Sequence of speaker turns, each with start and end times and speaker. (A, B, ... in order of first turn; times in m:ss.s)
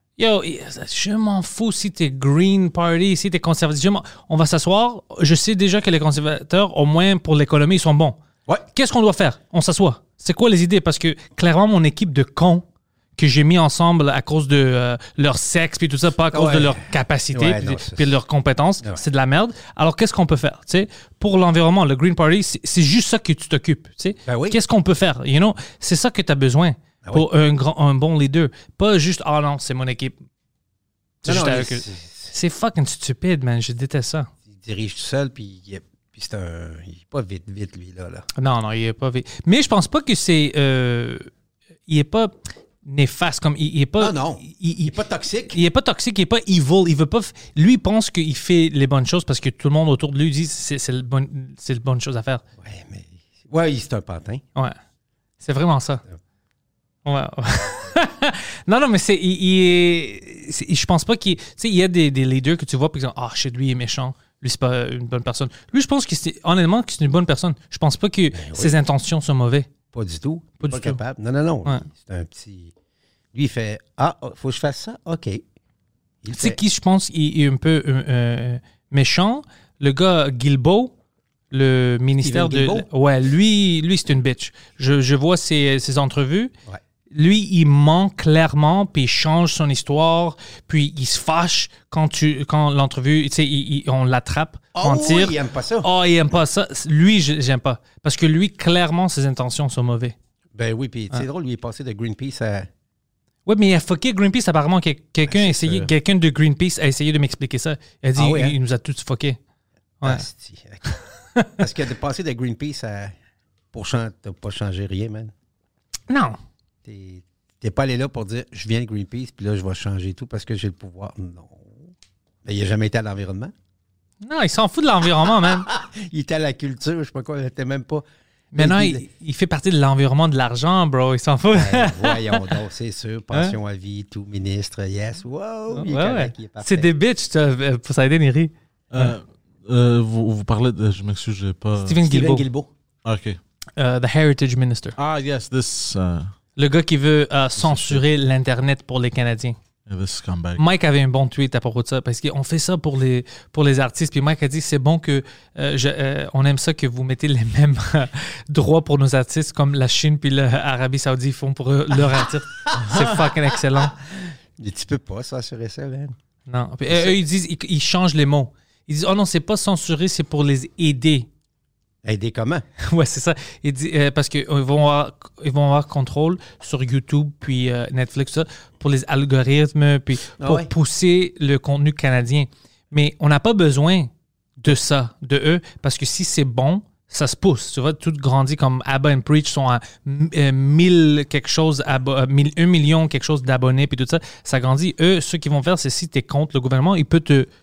0:00.2-0:12.6 A
0:13.2-0:30.1 A
0:16.3-0:18.2 B
0:24.2-0:24.6 B
0:31.2-0:34.3 A
0:31.2-0:32.3 B
0:34.5-0:38.2 B
0:38.4-0:41.3 A
0:41.9-0:44.9 A
0:44.0-0:45.6 B
0:45.5-0:52.4 A
0:52.6-0:54.4 B
0:55.4-0:56.0 A
0:57.0-1:09.7 A
1:08.3-1:08.7 B
1:09.9-1:12.7 B
1:10.6-1:11.0 A
1:13.3-1:15.4 B
1:16.2-1:16.6 B
1:16.3-1:20.9 A
1:21.5-1:26.5 A
1:22.2-1:22.8 B
1:27.1-1:40.1 A
1:34.7-1:35.9 B
1:40.5-1:42.7 B
1:43.4-1:49.4 A
1:45.2-1:45.9 B
1:48.2-1:48.6 B
1:50.0-1:50.8 B
1:51.6-1:53.1 B
1:53.7-1:55.3 B
1:56.1-1:56.4 A
1:56.8-2:01.9 B
2:02.4-2:03.5 B
2:04.2-2:05.7 A
2:05.2-2:09.0 B
2:08.5-2:12.5 A
2:11.5-2:16.9 B
2:15.7-2:19.1 A
2:18.9-2:22.0 C
2:21.8-2:22.4 A
2:22.0-2:22.7 B
2:23.0-2:23.4 C
2:23.8-2:25.0 A
2:25.0-2:26.3 C
2:26.6-2:29.5 A
2:27.6-2:28.0 C
2:29.9-2:30.6 C
2:30.6-2:43.9 A
2:42.7-2:43.0 B
2:43.8-2:46.2 B
2:46.5-2:51.3 A
2:46.9-2:47.2 B
2:52.0-2:52.6 B
2:52.8-3:17.5 A
3:00.4-3:00.7 B